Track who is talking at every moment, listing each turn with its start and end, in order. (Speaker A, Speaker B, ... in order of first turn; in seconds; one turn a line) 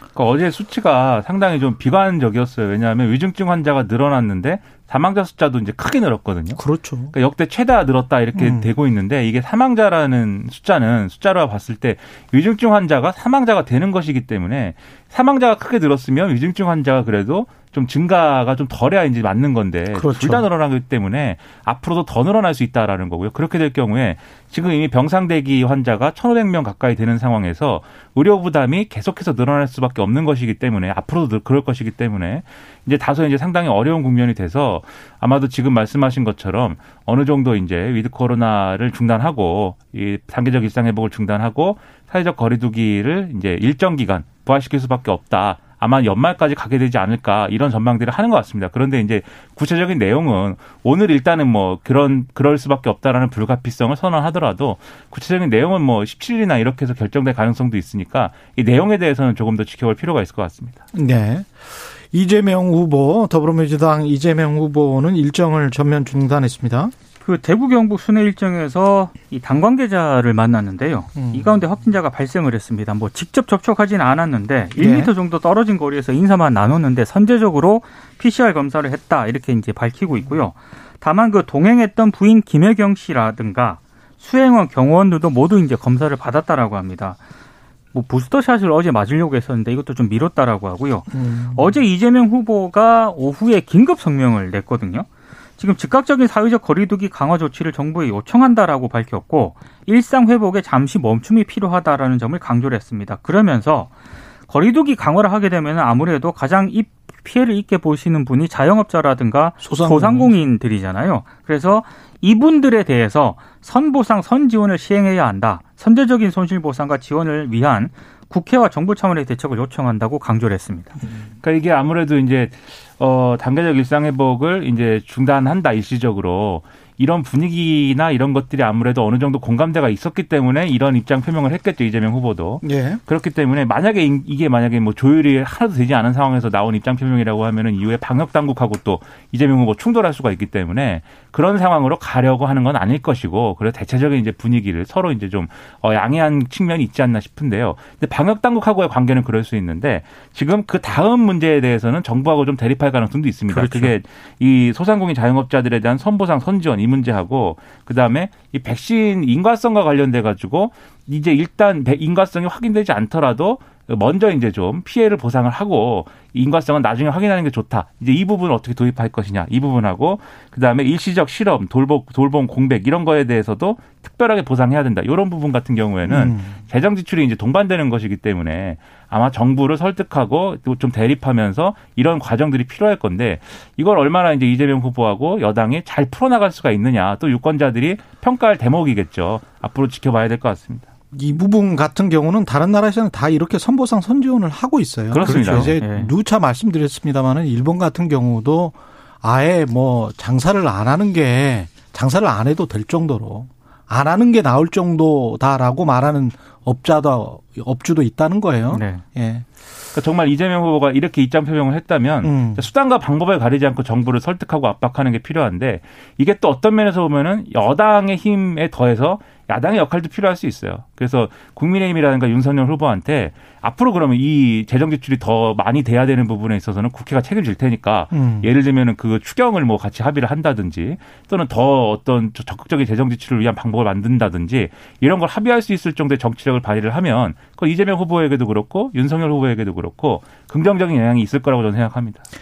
Speaker A: 0.1-60.8
Speaker B: 6.5-7.1
Speaker B: 8.3-8.7
Speaker B: 19.9-20.4
Speaker B: 60.9-66.9
Speaker C: 67.2-87.2
Speaker B: 71.2-71.7
Speaker B: 74.8-75.1
Speaker C: 87.9-95.1
Speaker B: 91.1-91.8
Speaker C: 95.6-103.9
Speaker C: 104.5-121.0
Speaker B: 109.6-110.4
Speaker A: 121.4-190.9
Speaker B: 132.6-133.0
Speaker C: 153.5-153.9
Speaker B: 176.0-176.6
Speaker B: 191.1-209.4
Speaker A: 195.1-195.8
Speaker C: 195.2-196.1
Speaker C: 208.7-209.0
Speaker A: 209.9-242.2
Speaker B: 212.2-212.7
Speaker B: 228.1-228.5